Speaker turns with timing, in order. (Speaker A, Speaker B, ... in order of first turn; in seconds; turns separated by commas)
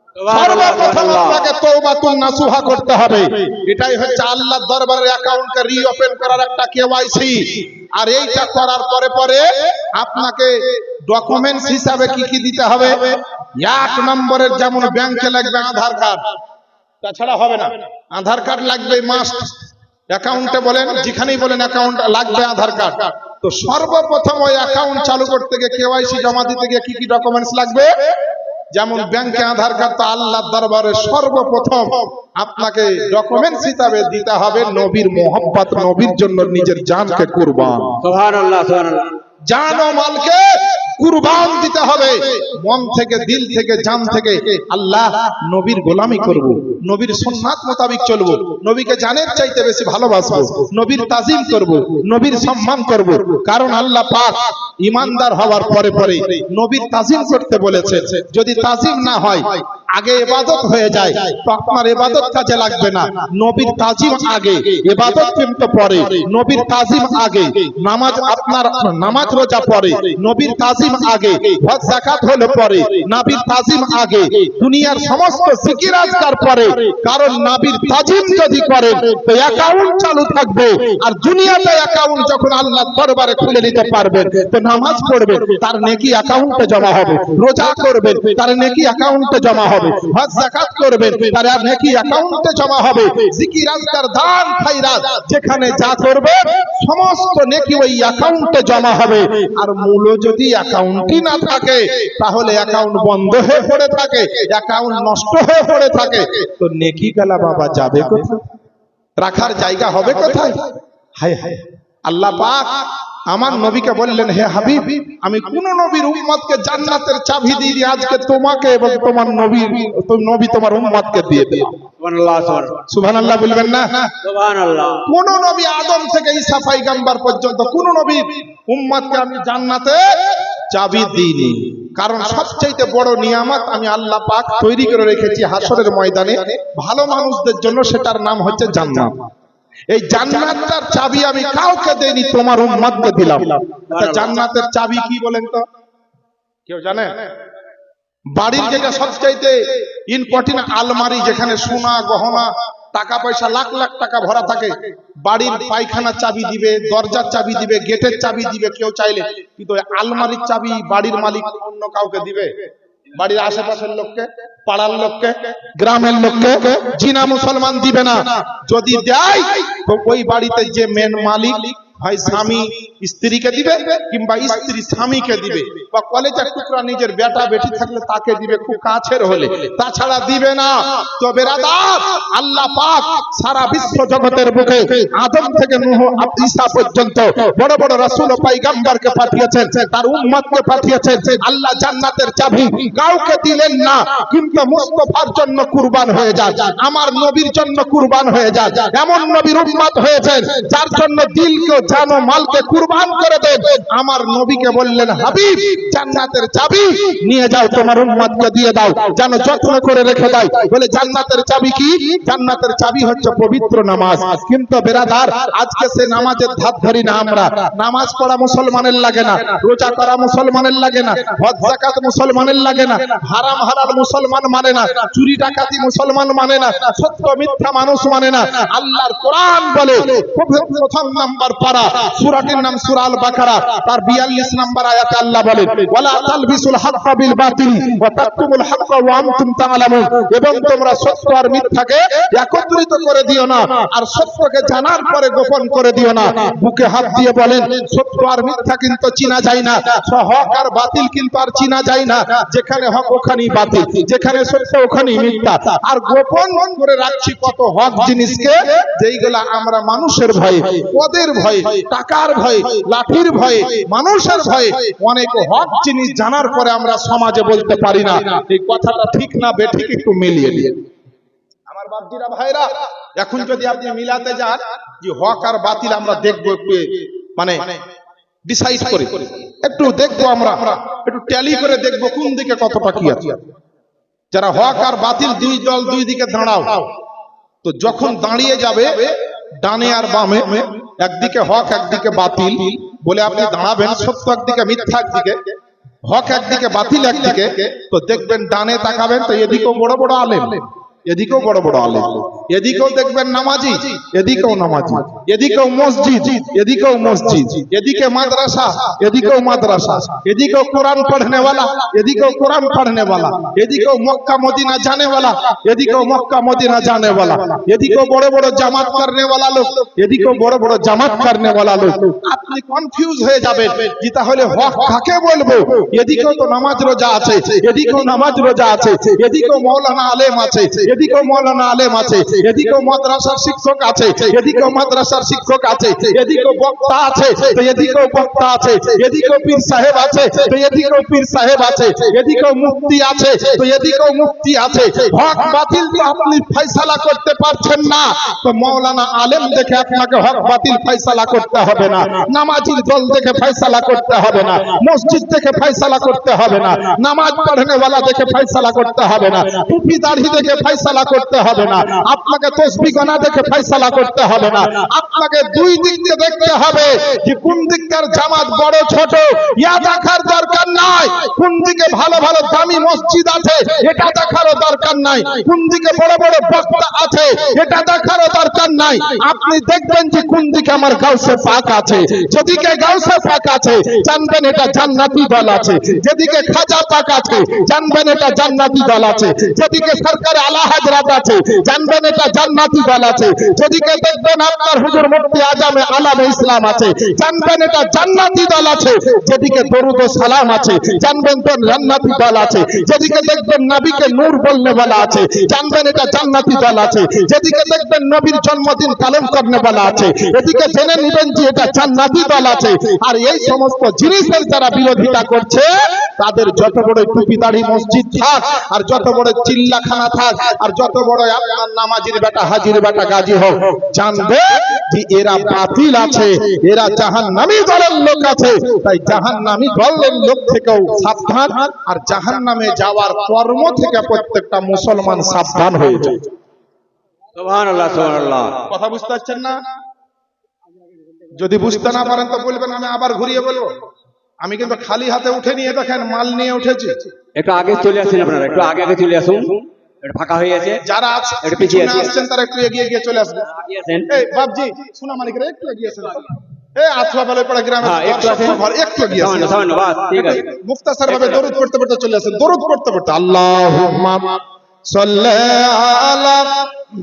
Speaker A: 0.2-1.5, Speaker B: 0.3-16.3, Speaker B: 17.0-19.6, Speaker B: 20.1-28.1, Speaker B: 28.7-38.0, Speaker A: 38.0-39.2, Speaker B: 39.5-108.5, Speaker B: 109.2-121.8, Speaker A: 122.0-122.9, Speaker B: 122.9-124.2, Speaker A: 124.2-125.1, Speaker B: 125.0-139.3, Speaker B: 139.9-145.7, Speaker A: 143.9-144.4, Speaker B: 146.7-147.3, Speaker B: 148.3-270.8, Speaker B: 271.7-277.8, Speaker B: 278.5-283.5, Speaker B: 284.3-286.9, Speaker B: 287.6-436.3, Speaker A: 437.4-438.7, Speaker B: 438.7-439.6, Speaker B: 441.3-443.8, Speaker B: 444.4-447.1, Speaker A: 447.4-450.8, Speaker B: 450.8-453.5, Speaker A: 451.4-452.1, Speaker A: 453.5-454.2, Speaker B: 454.1-459.6, Speaker A: 457.8-460.6, Speaker B: 460.2-466.7, Speaker A: 461.1-461.4